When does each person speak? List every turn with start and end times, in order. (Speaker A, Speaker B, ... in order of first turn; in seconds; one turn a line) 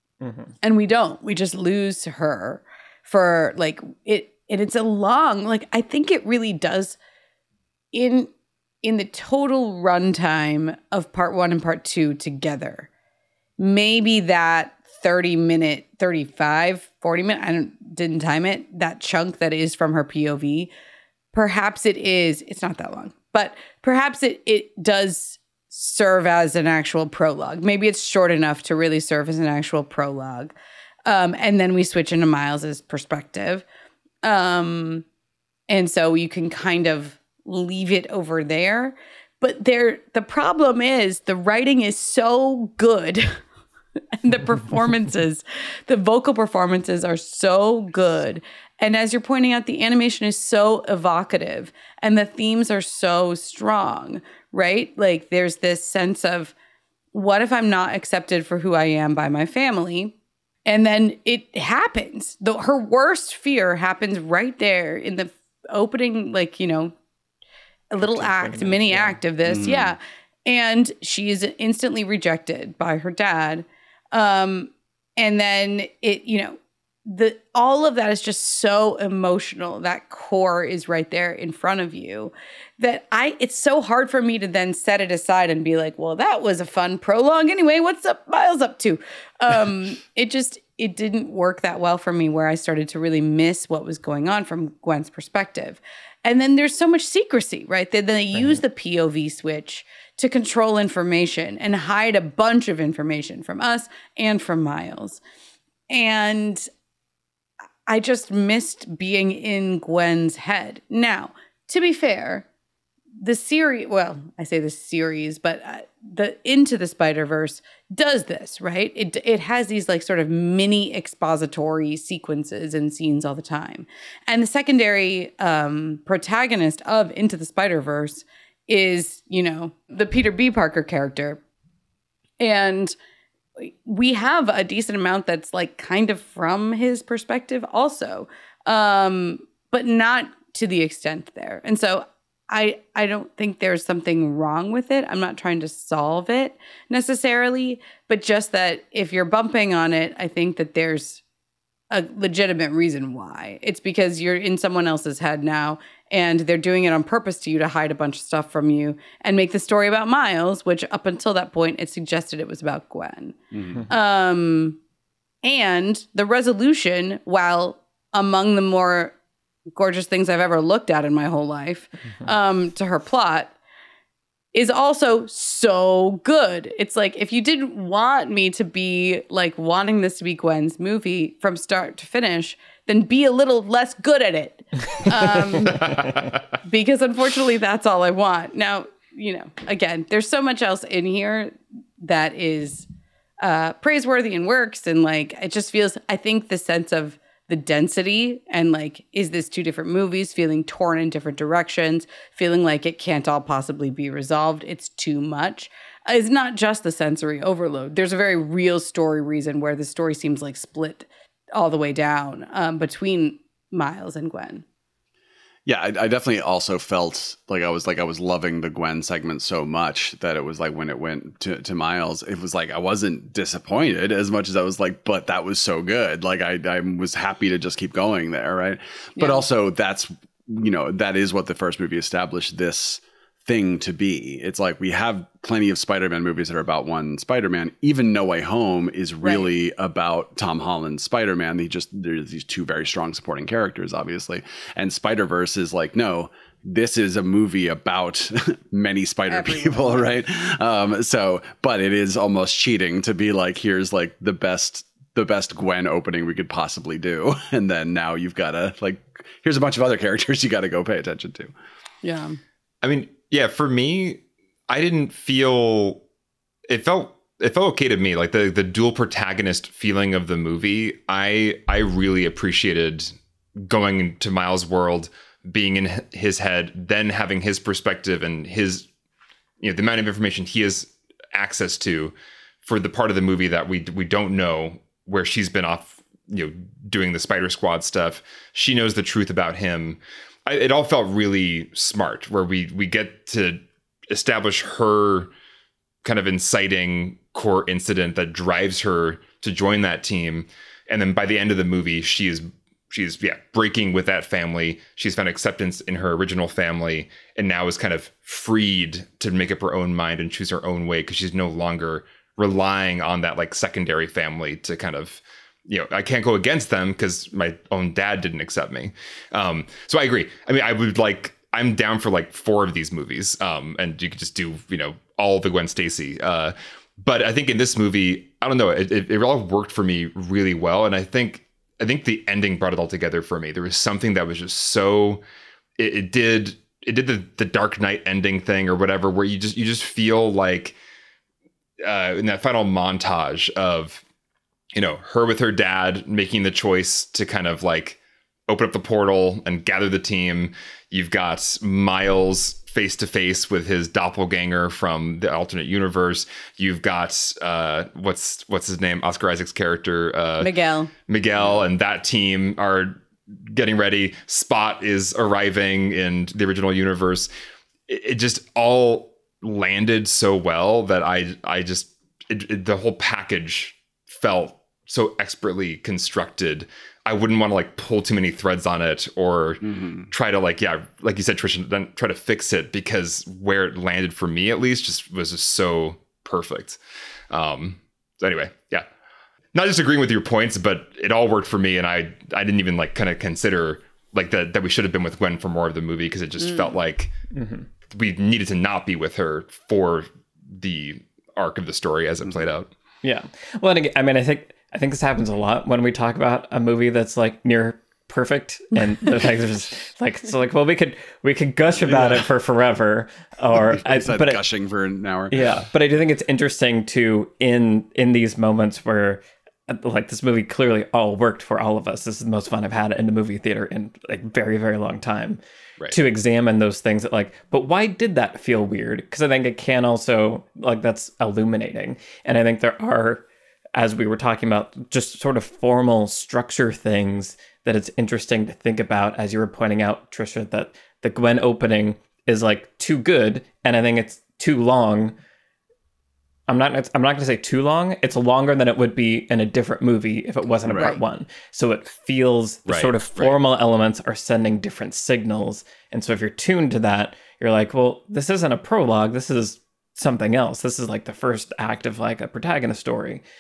Speaker A: 0.2-0.5
Speaker B: 0.6-7.0
Speaker B: 7.9-8.3
Speaker B: 8.8-12.9
Speaker B: 13.6-20.7
Speaker B: 21.3-30.5
Speaker B: 31.1-33.6
Speaker B: 34.2-35.0
Speaker B: 35.7-43.4
Speaker B: 44.2-56.5
Speaker B: 57.1-60.1
Speaker B: 60.7-67.0
Speaker B: 67.9-105.2
Speaker A: 68.0-69.2
Speaker C: 69.5-70.0
Speaker B: 105.9-106.7
Speaker B: 107.9-112.5
Speaker B: 113.2-131.4
Speaker B: 132.4-133.0
Speaker B: 133.6-151.2
Speaker B: 151.9-163.4
Speaker C: 163.5-163.8
Speaker B: 163.9-164.8
Speaker B: 165.4-169.2
Speaker B: 169.7-173.6
Speaker B: 174.5-192.9
Speaker D: 185.8-186.3
Speaker B: 193.4-214.6
Speaker C: 215.7-261.5
Speaker B: 229.2-229.4
Speaker B: 239.2-239.5
Speaker B: 249.3-250.1
Speaker B: 262.0-262.4
Speaker D: 262.8-266.0
Speaker D: 266.7-278.9
Speaker D: 279.6-295.3
Speaker D: 296.0-335.2
Speaker D: 335.8-340.8
Speaker D: 341.8-344.0
Speaker D: 344.8-360.5
Speaker B: 360.4-360.9
Speaker D: 361.1-367.3
Speaker D: 367.9-386.8
Speaker C: 379.6-380.1
Speaker D: 387.3-388.9
Speaker D: 389.5-397.1
Speaker B: 396.4-396.7
Speaker A: 397.3-397.7
Speaker D: 397.9-402.7
Speaker A: 403.0-414.4
Speaker C: 411.9-412.2
Speaker C: 413.5-415.5
Speaker A: 415.3-445.2
Speaker A: 446.5-463.2
Speaker C: 450.7-451.0
Speaker C: 452.7-453.3